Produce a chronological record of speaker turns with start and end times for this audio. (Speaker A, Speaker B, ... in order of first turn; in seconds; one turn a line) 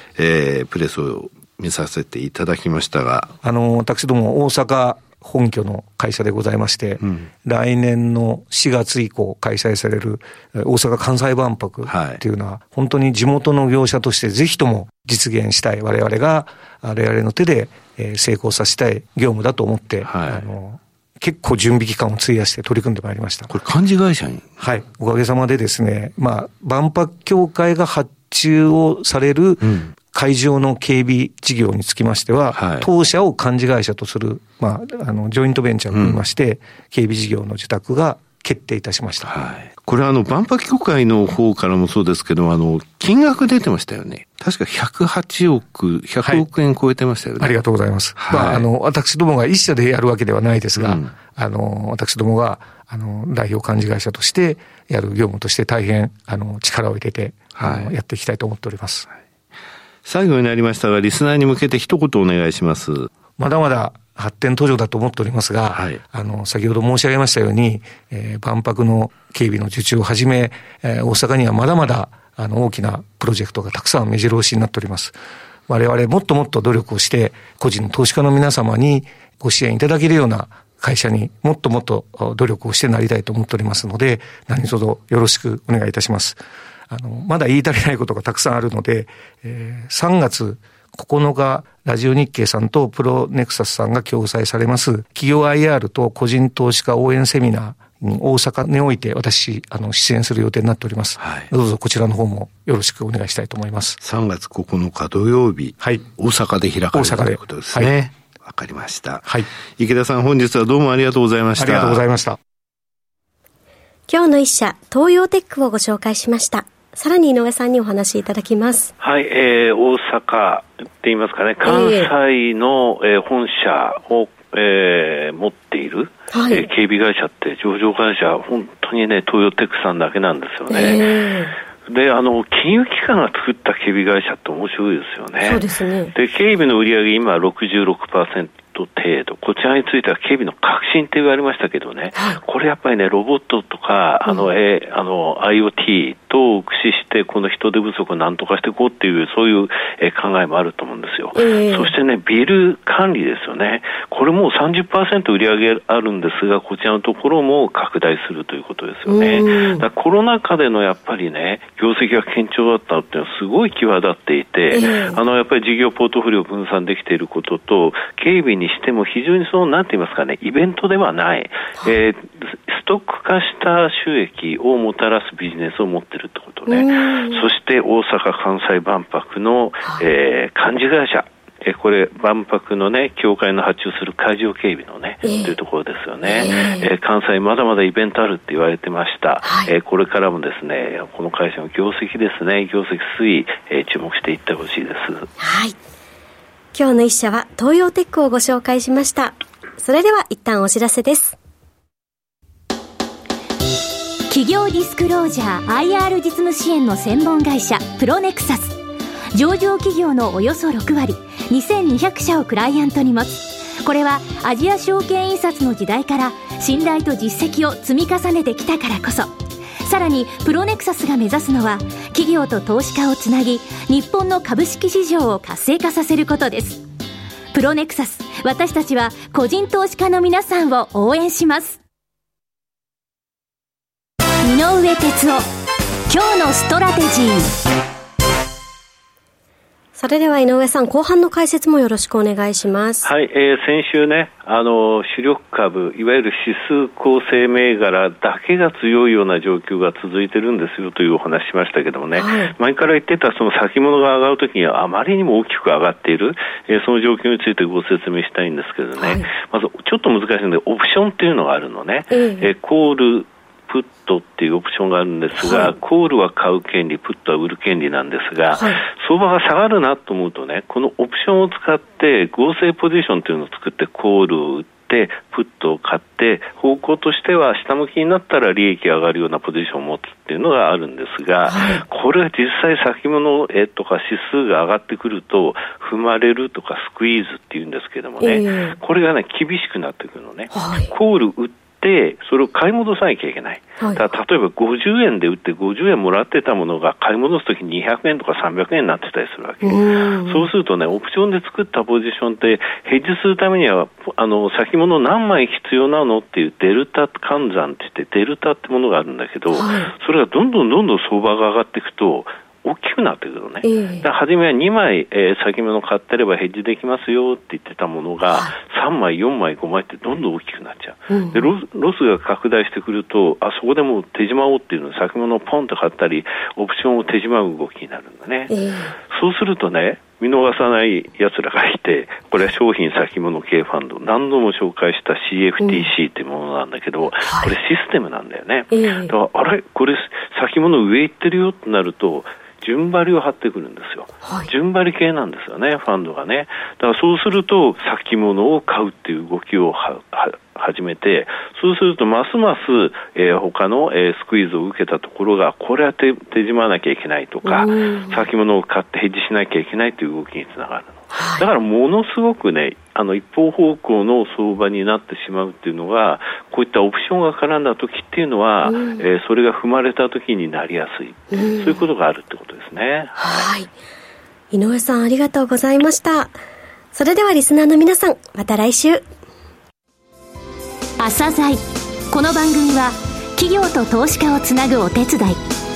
Speaker A: 0.2-3.3
Speaker B: 3.4-23.5
Speaker A: 7.0-7.3
Speaker A: 11.9-12.2
Speaker A: 20.0-20.4
Speaker A: 23.5-24.6
Speaker B: 24.6-39.4
Speaker A: 29.6-29.9
Speaker A: 32.5-32.9
Speaker A: 35.9-36.2
Speaker A: 39.3-47.5
Speaker B: 47.4-59.1
Speaker A: 48.2-48.7
Speaker A: 50.8-51.1
Speaker A: 57.6-57.9
Speaker A: 60.0-63.1
Speaker B: 63.4-75.2
Speaker A: 65.7-66.0
Speaker B: 75.7-104.0
Speaker A: 101.2-101.5
Speaker A: 104.0-112.0
Speaker B: 105.8-106.1
Speaker B: 106.9-107.9
Speaker B: 111.6-112.4
Speaker C: 114.1-118.9
Speaker D: 119.0-131.1
Speaker C: 121.7-122.1
Speaker C: 126.3-126.7
Speaker C: 130.7-131.5
Speaker D: 131.9-195.3
Speaker C: 135.4-136.1
Speaker C: 142.1-142.4
Speaker C: 151.3-151.9
Speaker C: 159.1-159.8
Speaker C: 164.7-165.2
Speaker C: 176.7-177.5
Speaker C: 185.2-185.6
Speaker C: 186.2-186.9
Speaker C: 189.4-189.7
Speaker C: 195.4-195.8
Speaker C: 196.7-201.4
Speaker E: 204.3-208.8
Speaker E: 209.3-219.3
Speaker E: 219.8-226.8
Speaker E: 227.5-231.8
Speaker E: 234.4-235.4
Speaker E: 236.1-237.5
Speaker C: 240.0-243.1
Speaker D: 243.0-328.6
Speaker C: 252.2-252.5
Speaker C: 259.0-259.3
Speaker C: 262.1-262.5
Speaker C: 265.4-265.7
Speaker C: 268.5-268.8
Speaker C: 281.4-281.8
Speaker C: 288.2-288.8
Speaker C: 290.5-290.9
Speaker C: 299.6-300.5
Speaker C: 309.5-309.9
Speaker C: 313.6-314.1
Speaker C: 318.3-318.6
Speaker C: 321.1-321.5
Speaker C: 328.5-328.9
Speaker D: 329.1-373.5
Speaker C: 335.6-335.9
Speaker C: 337.3-337.5
Speaker C: 338.7-339.1
Speaker C: 344.2-344.5
Speaker C: 357.4-358.2
Speaker C: 361.1-361.5
Speaker C: 368.6-369.0
Speaker C: 371.3-371.9
Speaker C: 373.2-373.7
Speaker C: 374.5-376.4
Speaker C: 376.9-379.1
Speaker E: 381.0-385.4